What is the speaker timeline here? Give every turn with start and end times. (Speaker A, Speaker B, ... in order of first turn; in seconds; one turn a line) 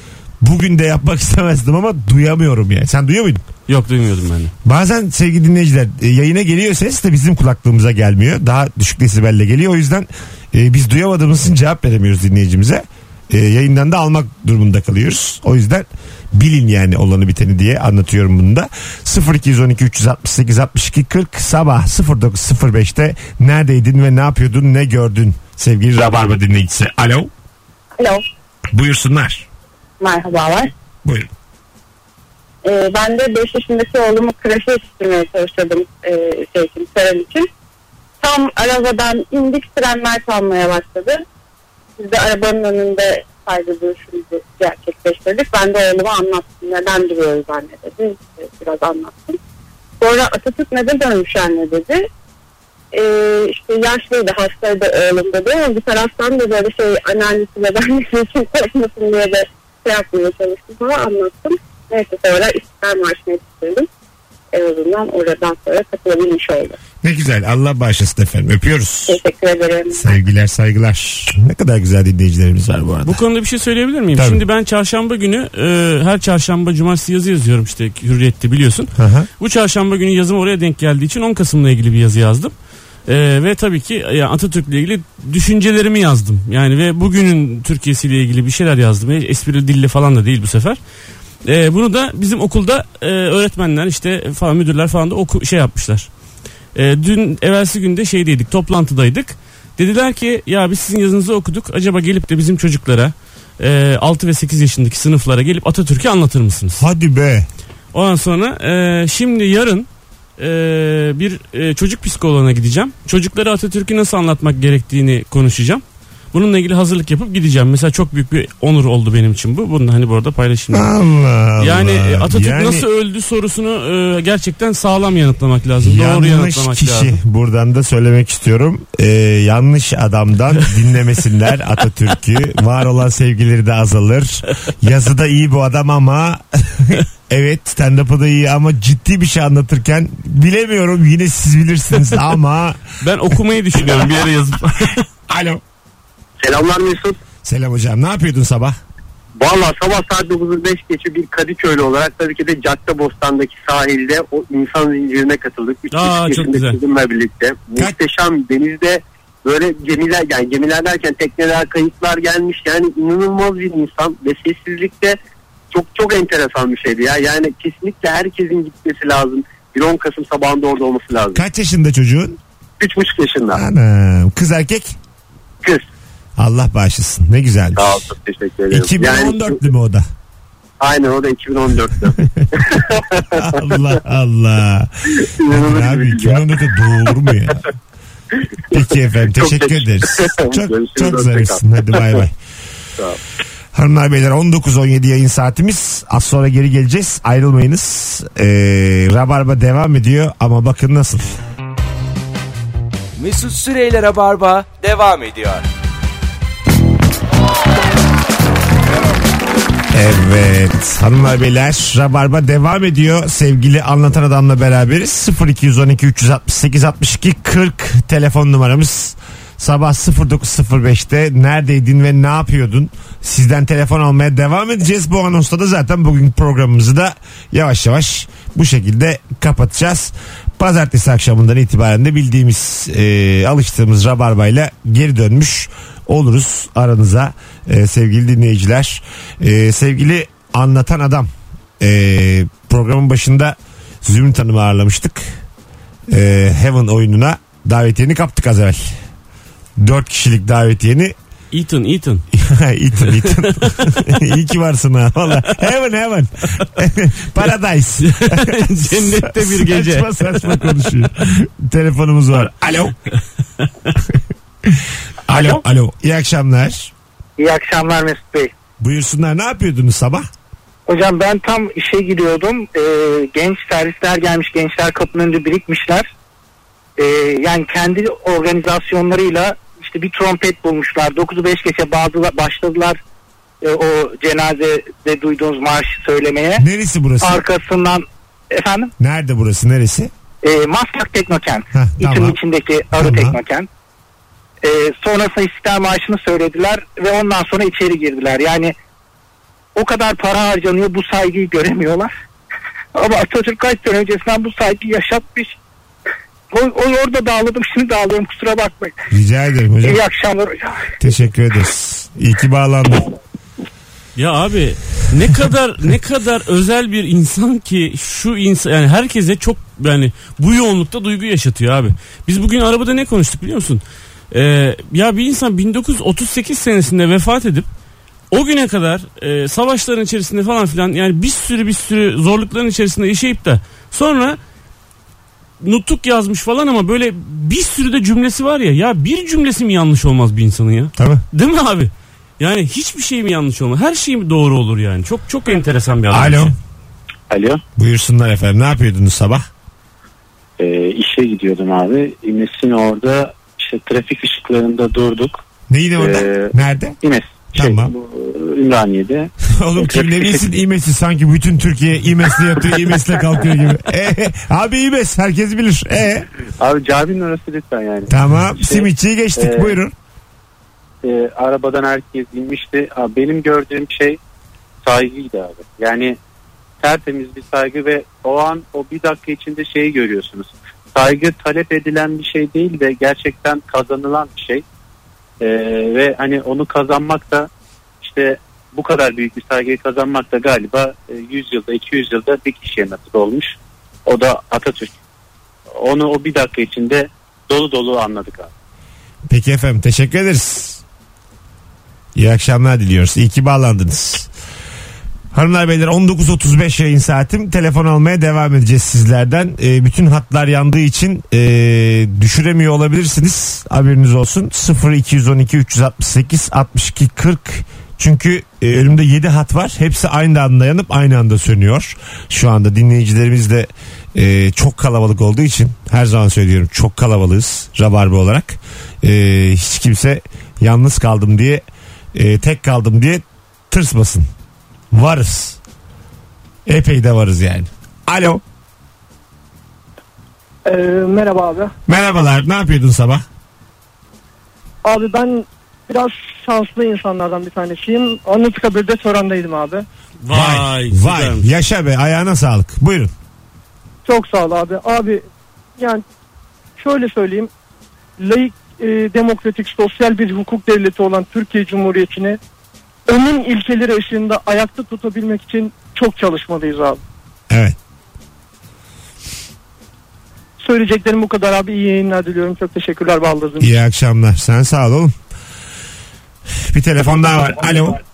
Speaker A: 0.4-3.4
Speaker B: 3.7-4.5
Speaker A: 4.6-27.3
Speaker C: 28.0-28.2
Speaker A: 28.7-29.5
Speaker C: 30.0-30.7
Speaker A: 31.0-31.3
Speaker C: 32.6-37.5
Speaker C: 38.2-41.2
Speaker C: 42.0-49.4
Speaker C: 50.0-52.1
Speaker C: 52.9-63.9
Speaker C: 64.5-66.8
Speaker A: 67.0-69.2
Speaker C: 69.1-70.1
Speaker A: 69.9-73.2
Speaker B: 73.0-82.5
Speaker A: 74.2-74.4
Speaker A: 78.9-79.3
Speaker B: 83.0-90.8
Speaker B: 91.4-96.1
Speaker B: 96.7-106.8
Speaker A: 106.8-107.5
Speaker B: 107.9-120.9
Speaker A: 120.7-122.8
Speaker B: 121.6-127.2
Speaker A: 125.8-142.8
Speaker B: 143.0-145.0
Speaker A: 143.3-144.2
Speaker A: 145.3-145.6
Speaker D: 146.4-147.2
Speaker A: 147.4-148.8
Speaker D: 149.3-165.2
Speaker B: 155.9-156.8
Speaker D: 165.7-171.4
Speaker A: 171.3-172.4
Speaker D: 172.8-173.6
Speaker A: 173.5-175.0
Speaker A: 176.4-178.0
Speaker D: 177.8-179.6
Speaker A: 178.7-180.1
Speaker D: 180.8-183.2
Speaker A: 182.1-182.8
Speaker A: 183.3-187.6
Speaker D: 185.4-186.4
Speaker A: 188.7-192.3
Speaker D: 189.4-191.6
Speaker A: 193.7-201.4
Speaker E: 203.2-205.6
Speaker A: 209.9-245.4
Speaker A: 246.1-249.0
Speaker A: 249.8-251.1
Speaker B: 251.5-252.2
Speaker A: 252.3-262.9
Speaker B: 253.2-253.6
Speaker B: 258.0-260.8
Speaker A: 264.1-266.9
Speaker F: 265.3-265.6
Speaker F: 267.4-268.5
Speaker A: 268.8-270.3
Speaker F: 270.9-276.1
Speaker F: 277.0-283.0
Speaker F: 283.6-286.6
Speaker A: 286.6-287.4
Speaker F: 287.2-288.9
Speaker A: 289.0-290.1
Speaker F: 290.4-293.7
Speaker A: 291.7-292.4
Speaker A: 292.9-293.4
Speaker F: 294.6-298.7
Speaker F: 299.7-302.1
Speaker F: 302.9-305.5
Speaker F: 306.5-308.9
Speaker A: 309.1-310.0
Speaker F: 309.8-310.9
Speaker A: 311.0-313.1
Speaker B: 314.1-327.7
Speaker B: 328.3-334.4
Speaker B: 335.6-346.5
Speaker A: 340.9-341.2
Speaker A: 346.1-346.5
Speaker G: 347.3-347.6
Speaker A: 347.8-349.5
Speaker G: 350.6-355.4
Speaker A: 355.7-356.9
Speaker G: 356.0-360.4
Speaker A: 357.5-357.9
Speaker A: 359.4-366.3
Speaker G: 366.6-369.7
Speaker A: 368.1-369.9
Speaker G: 371.0-374.2
Speaker G: 374.8-376.2
Speaker G: 376.8-384.6
Speaker G: 385.4-387.5
Speaker G: 388.0-393.5
Speaker G: 394.1-394.9
Speaker G: 395.8-398.5
Speaker A: 399.3-400.8
Speaker A: 402.1-404.3
Speaker A: 405.3-431.6
Speaker A: 432.1-434.3
Speaker A: 434.9-435.6
Speaker A: 436.6-438.4
Speaker H: 440.6-441.7
Speaker A: 441.9-443.2
Speaker H: 444.8-449.8
Speaker B: 450.2-451.5
Speaker A: 450.3-453.1
Speaker H: 454.0-455.2
Speaker H: 455.8-456.0
Speaker H: 456.8-457.5
Speaker H: 458.2-462.4
Speaker H: 463.1-467.0
Speaker A: 467.5-467.8
Speaker H: 470.6-473.7
Speaker A: 473.6-475.1
Speaker A: 476.6-478.0